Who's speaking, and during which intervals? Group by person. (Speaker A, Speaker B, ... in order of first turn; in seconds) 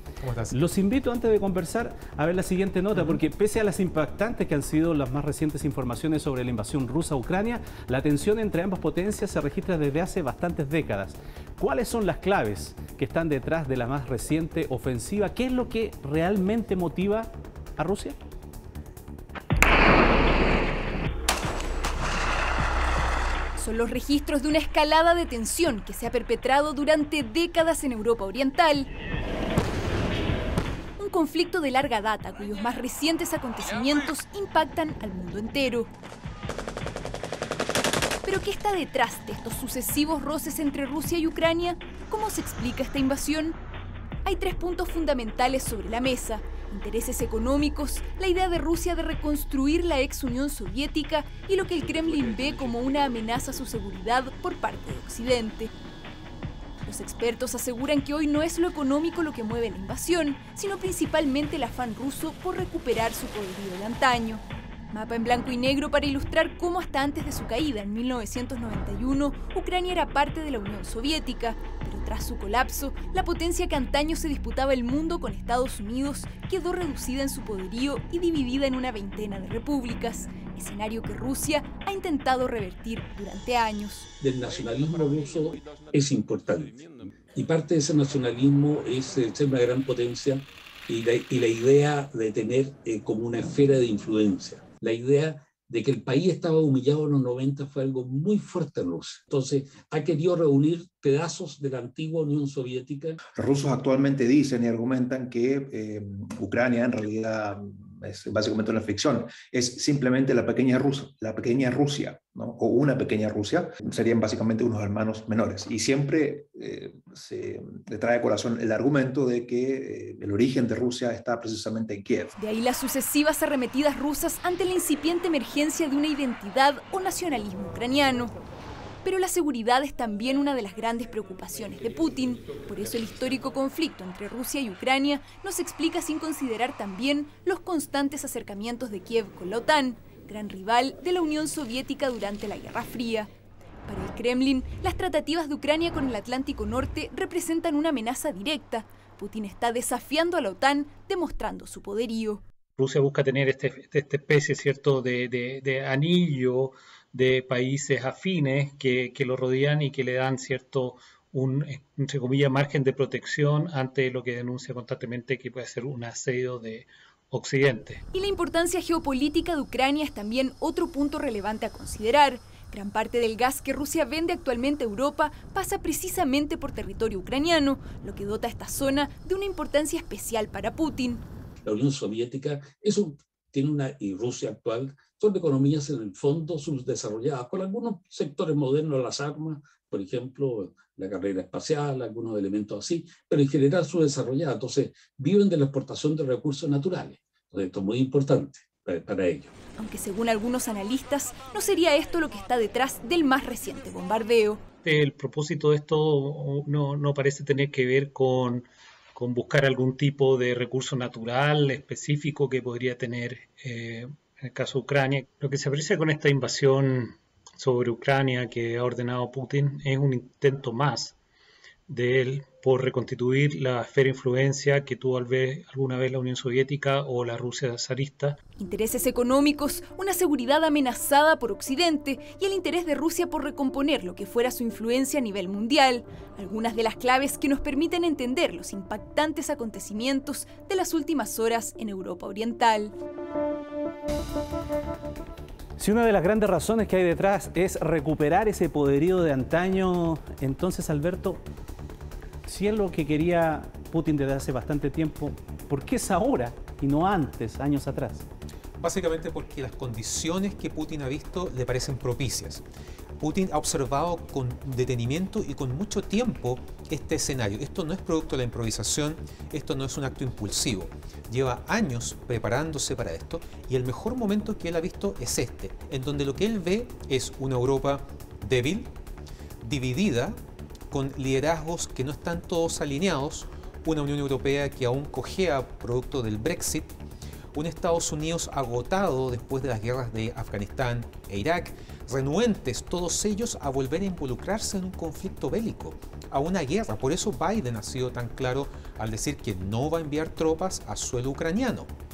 Speaker A: 0.2-0.6, 258.8-262.6, 263.2-278.9, 279.6-280.4, 280.9-286.9, 287.5-301.9
Speaker B: 0.5-18.1, 245.8-251.4, 252.4-258.2
Speaker C: 23.6-28.9, 31.0-35.9, 38.2-43.5, 44.2-55.7, 56.9-84.1, 122.4-128.3, 129.0-143.3, 143.9-152.4, 168.1-181.2, 199.8-204.6, 228.6-242.9
Speaker D: 84.2-86.7, 87.3-103.2, 181.7-199.5
Speaker E: 103.3-122.3
Speaker F: 152.8-168.0, 204.8-221.1, 221.9-228.4